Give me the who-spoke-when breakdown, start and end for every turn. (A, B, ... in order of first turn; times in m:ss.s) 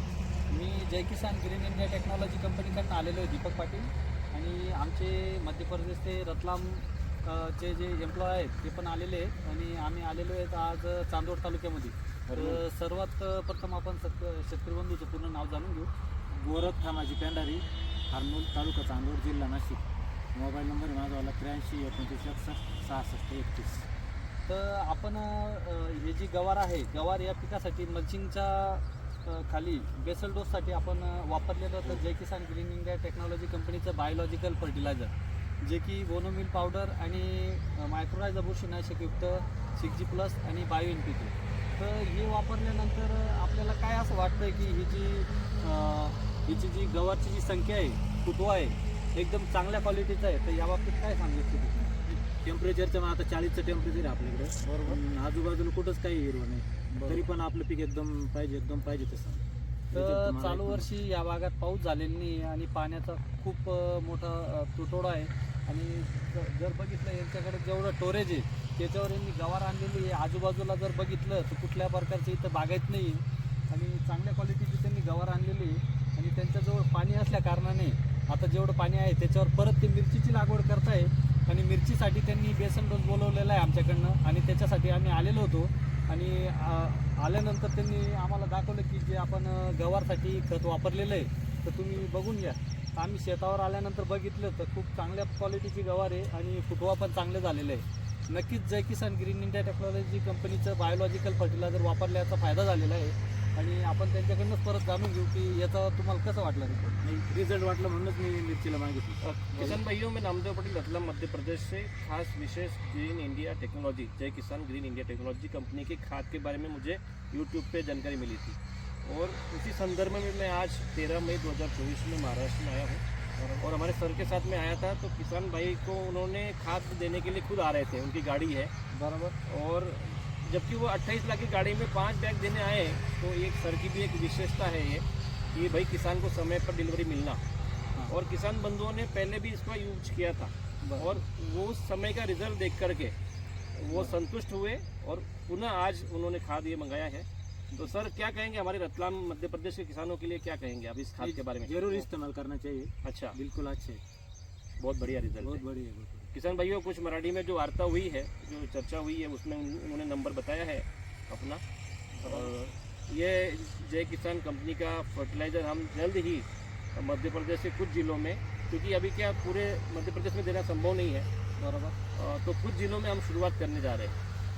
0:00.5-0:15.9 A
0:16.3-0:23.9 B
0:24.5-0:51.9 A
0:52.0-1:00.9 B
0:54.6-0:55.0 A
0:56.9-0:57.3 A
0:59.9-1:47.0 A
1:47.0-1:49.8 B
1:49.2-2:03.0 C
2:03.4-2:03.6 A
2:03.6-2:08.7 C
2:08.9-2:09.4 A
2:09.4-2:17.4 C
2:18.1-2:23.1 C
2:20.8-2:21.1 A
2:23.7-2:27.2 C
2:27.8-2:32.1 C
2:31.2-2:34.0 B
2:33.0-2:33.4 C
2:34.8-2:35.6 C
2:35.4-2:36.3 B
2:36.3-2:41.6 C
2:42.2-2:42.5 A
2:42.2-2:51.3 C
2:51.6-2:52.0 A
2:52.1-2:54.2 C